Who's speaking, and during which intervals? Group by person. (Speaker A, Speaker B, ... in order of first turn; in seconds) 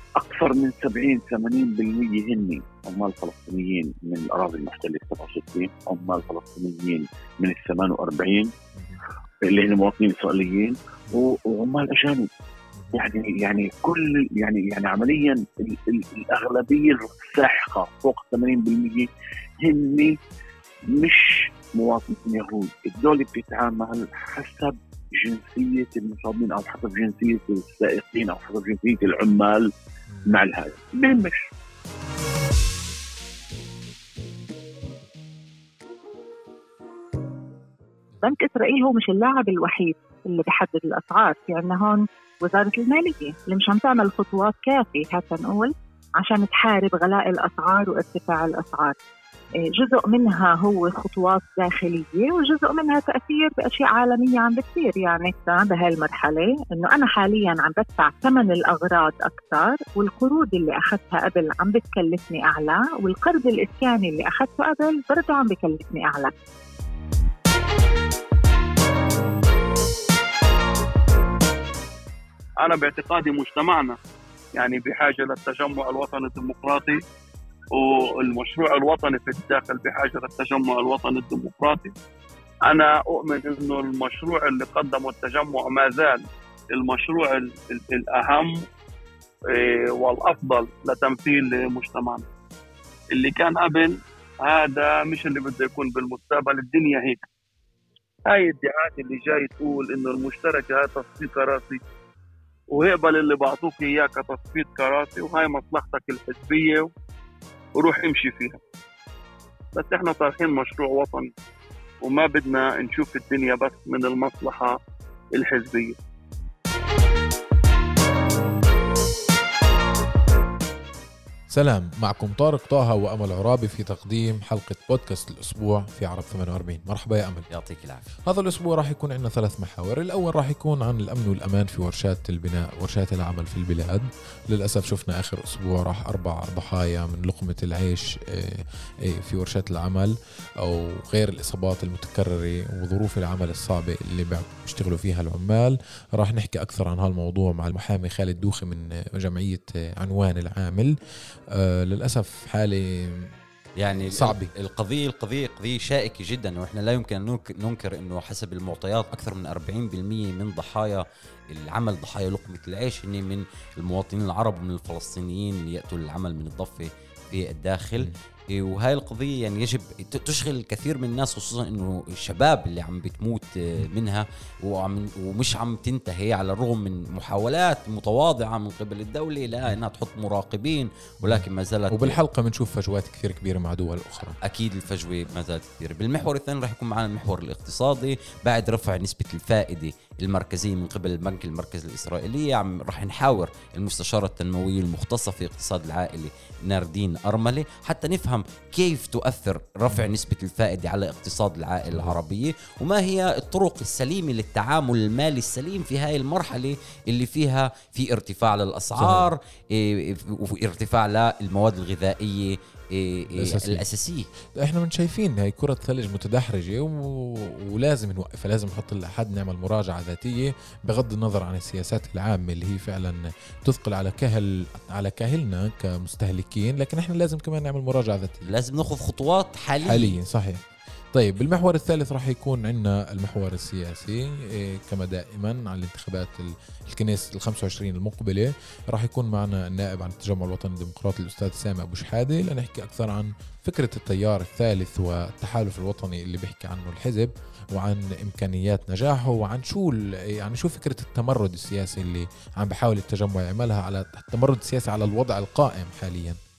Speaker A: 0.2-8.5, 9.5-12.3, 12.9-19.1, 19.6-20.1, 20.9-29.7, 30.3-31.5
Speaker B: 8.8-9.0, 12.8-13.0, 121.5-127.5, 128.3-150.9, 151.5-153.3, 154.1-154.5, 181.2-184.4, 201.9-202.2, 209.0-209.3, 213.3-213.8, 214.6-228.5, 229.8-256.4
Speaker C: 38.2-49.0, 49.7-66.3
Speaker D: 72.6-74.0, 74.6-77.0, 77.7-81.9, 82.7-86.2, 86.7-88.6, 89.5-92.2, 93.1-97.2, 98.3-101.8, 102.7-106.9, 107.8-108.6, 109.8-111.3, 112.0-114.8, 115.4-116.0
Speaker E: 127.5-128.1, 153.8-182.2, 184.4-214.3, 228.5-230.2